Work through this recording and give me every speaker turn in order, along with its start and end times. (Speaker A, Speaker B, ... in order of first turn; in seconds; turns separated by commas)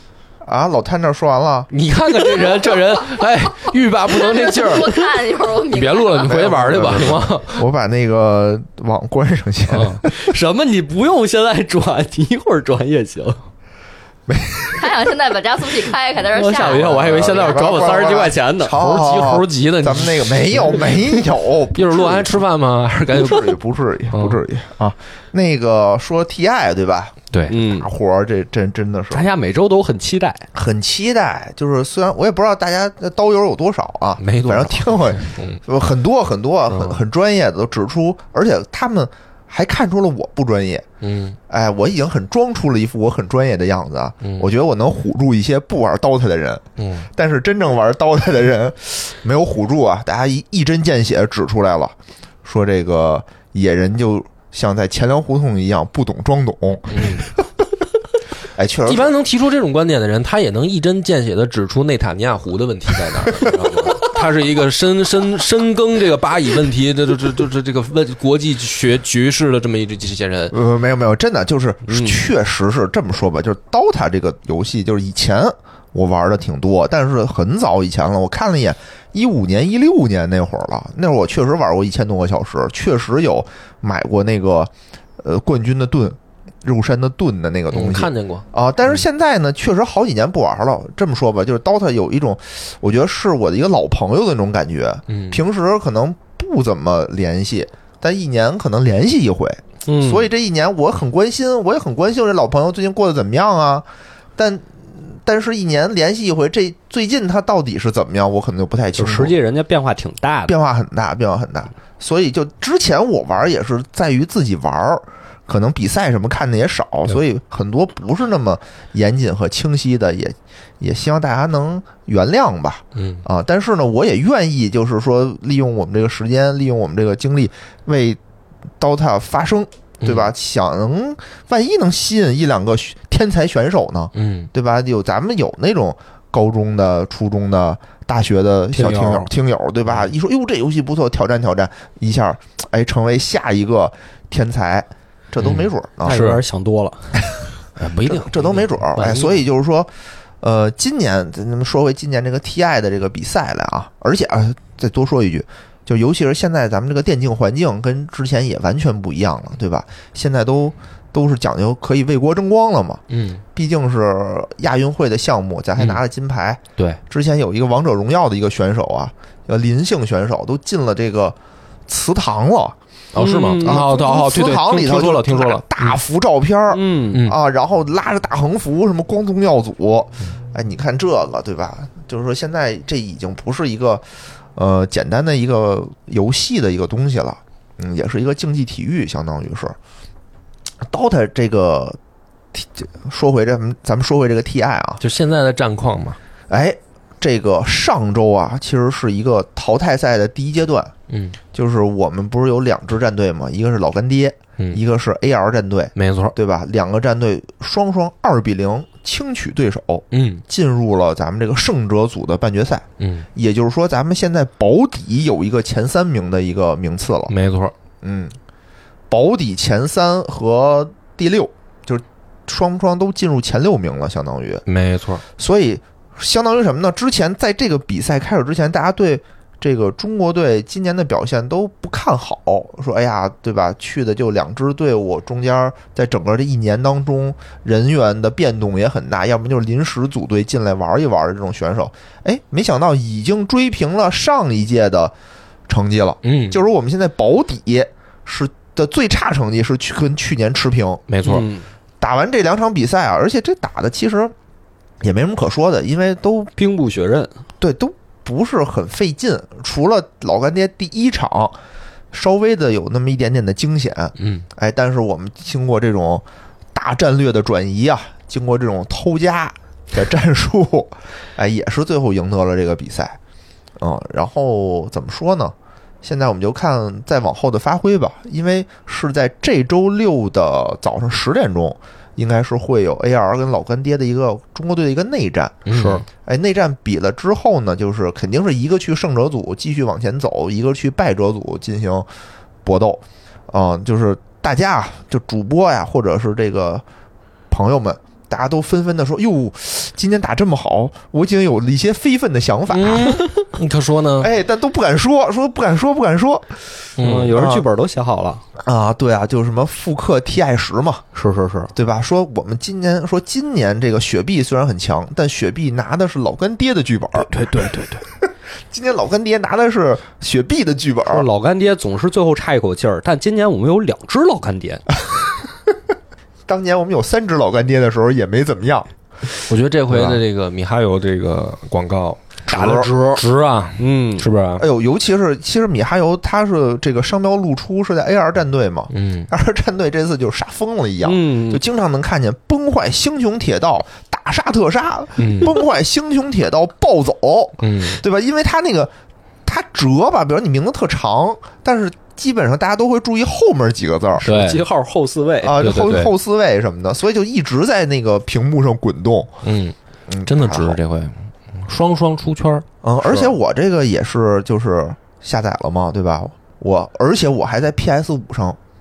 Speaker A: 0.4-1.7, Speaker B: 1.7-5.1, Speaker C: 4.1-6.6, Speaker B: 5.7-7.7, Speaker A: 6.2-10.1, Speaker B: 9.7-10.0, Speaker D: 10.0-13.4, Speaker A: 14.3-14.8, Speaker C: 14.7-17.9, Speaker D: 16.3-18.8, Speaker A: 16.7-22.4, Speaker B: 18.7-20.9, Speaker B: 21.7-23.6, Speaker A: 23.1-29.3, Speaker B: 24.1-24.4, Speaker B: 27.3-27.6, Speaker D: 27.5-27.9, Speaker D: 29.1-30.5, Speaker A: 30.5-40.8, Speaker B: 34.2-35.6, Speaker B: 36.7-37.0, Speaker B: 41.0-41.4, Speaker A: 41.5-57.4, Speaker B: 44.2-44.5, Speaker B: 46.8-47.1, Speaker B: 56.9-57.3, Speaker A: 58.5-59.1, Speaker B: 58.9-70.5, Speaker A: 70.5-109.3, Speaker D: 71.9-72.2, Speaker B: 87.7-89.0, Speaker B: 95.1-95.4, Speaker D: 99.8-100.3, Speaker D: 109.0-110.5, Speaker A: 110.5-128.2, Speaker B: 123.0-123.2, Speaker A: 128.8-146.4, Speaker B: 130.0-130.3, Speaker B: 134.1-134.5, Speaker D: 138.7-139.3, Speaker B: 145.4-145.7, Speaker D: 146.0-147.2, Speaker B: 147.8-149.2, Speaker A: 148.0-163.0, Speaker D: 148.9-149.4, Speaker B: 163.1-163.4, Speaker A: 163.5-171.4, Speaker A: 171.9-172.8, Speaker B: 173.1-176.0, Speaker D: 173.2-173.8, Speaker A: 173.3-189.8, Speaker D: 176.7-177.2, Speaker B: 177.1-177.4, Speaker A: 190.9-192.0, Speaker A: 192.5-195.0, Speaker B: 195.0-196.2, Speaker A: 196.5-200.9, Speaker B: 201.1-201.4, Speaker A: 201.5-217.3, Speaker B: 205.9-206.3, Speaker B: 210.1-210.4, Speaker B: 213.0-213.3, Speaker B: 217.3-217.7, Speaker A: 218.0-218.4, Speaker A: 219.1-224.6, Speaker B: 224.7-225.2, Speaker A: 225.3-245.1, Speaker A: 245.7-251.0, Speaker B: 246.2-246.6, Speaker B: 251.1-251.5, Speaker D: 251.2-251.7, Speaker A: 252.0-254.3, Speaker A: 255.0-256.5, Speaker D: 256.6-257.3, Speaker A: 257.6-261.6, Speaker A: 262.1-273.2, Speaker B: 264.2-264.5, Speaker A: 273.8-285.6, Speaker B: 285.6-286.0, Speaker D: 285.7-286.0, Speaker A: 286.2-292.1, Speaker A: 292.6-296.8, Speaker A: 297.5-303.2, Speaker B: 302.7-304.3, Speaker A: 304.2-306.6, Speaker B: 307.0-307.3, Speaker D: 307.0-308.4, Speaker A: 307.3-307.6, Speaker A: 308.6-311.0, Speaker D: 311.1-311.7, Speaker A: 311.7-317.3, Speaker D: 317.2-318.0, Speaker A: 318.7-321.3, Speaker D: 321.1-324.8, Speaker A: 326.5-328.9, Speaker B: 329.5-332.3, Speaker A: 329.9-330.2, Speaker A: 332.5-332.9, Speaker D: 332.5-333.2, Speaker B: 333.1-334.6, Speaker D: 333.8-334.2, Speaker A: 334.6-348.9, Speaker B: 338.9-339.3, Speaker D: 341.0-341.6, Speaker B: 345.2-345.5, Speaker B: 347.6-348.0, Speaker A: 349.4-354.3, Speaker D: 354.2-355.9, Speaker B: 354.2-354.6, Speaker A: 355.4-359.3, Speaker B: 355.6-356.1, Speaker B: 359.4-363.3, Speaker A: 360.1-360.8, Speaker A: 362.8-368.6